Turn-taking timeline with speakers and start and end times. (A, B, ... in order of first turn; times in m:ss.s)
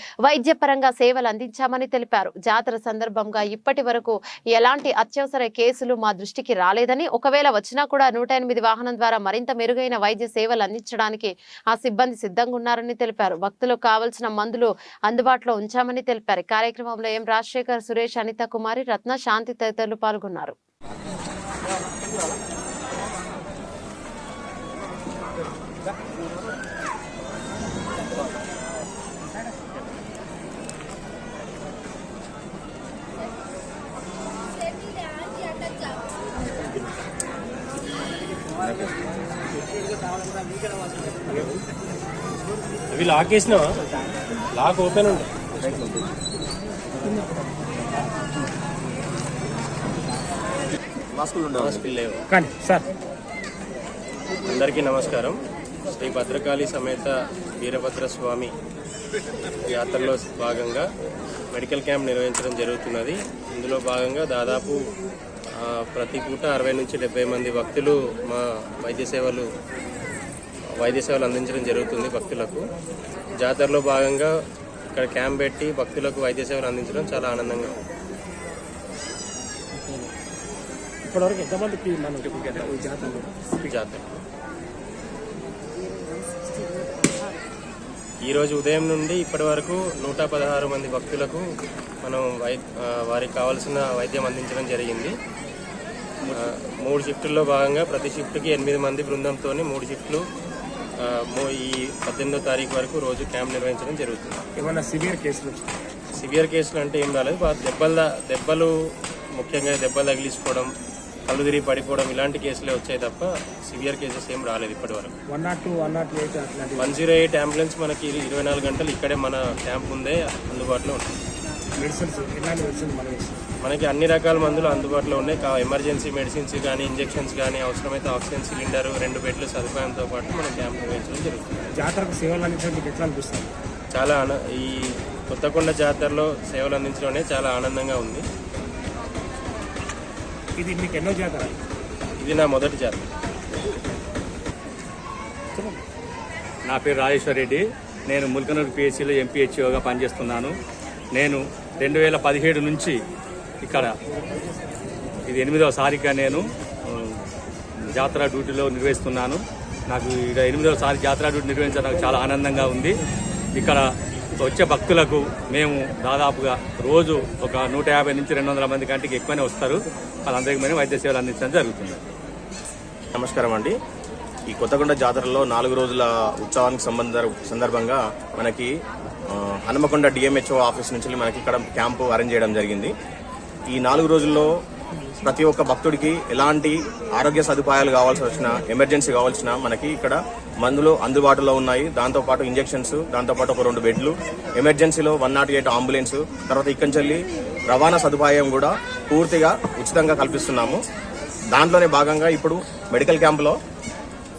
0:00.2-0:20.6 A
0:42.9-0:43.8 B
0:44.6-0:45.4 B
0:45.6-0:46.1 C
0:51.1-0:51.9 C
0:51.6-0:52.2 B
0:52.3-0:52.9 D
0:54.5-0:55.4 B
0:56.0-0:58.5 B
0:59.7-1:00.9 B
1:01.5-1:04.8 B
1:05.6-1:09.5 B
1:10.8-1:12.6 B
1:13.4-1:14.3 B
1:14.9-1:17.8 B
1:19.7-1:20.1 D
1:21.1-1:23.7 D
1:23.7-1:24.2 B
1:28.3-1:31.4 B
1:32.0-1:35.1 B
1:36.3-1:40.2 B
1:41.0-1:44.4 B
1:44.6-1:45.7 D
1:46.2-1:48.7 B
1:49.4-1:50.7 B
1:51.3-1:55.1 B
1:55.3-1:57.0 D
1:56.8-2:01.0 B
2:01.8-2:03.4 D
2:03.6-2:11.7 B
2:11.8-2:13.5 D
2:13.9-2:14.8 B
2:15.3-2:18.2 B
2:20.6-2:21.6 D
2:22.2-2:23.0 B
2:25.6-2:25.8 D
2:26.7-2:30.5 E
2:31.1-2:33.0 E
2:33.6-2:33.9 E
2:35.3-2:37.2 E
2:37.9-2:42.9 E
2:43.6-2:43.8 E
2:44.4-2:52.1 E
2:53.2-2:53.7 C
2:54.5-2:58.7 C
2:59.3-3:02.9 C
3:03.7-3:04.5 C
3:05.2-3:20.8 C
3:21.5-3:23.6 C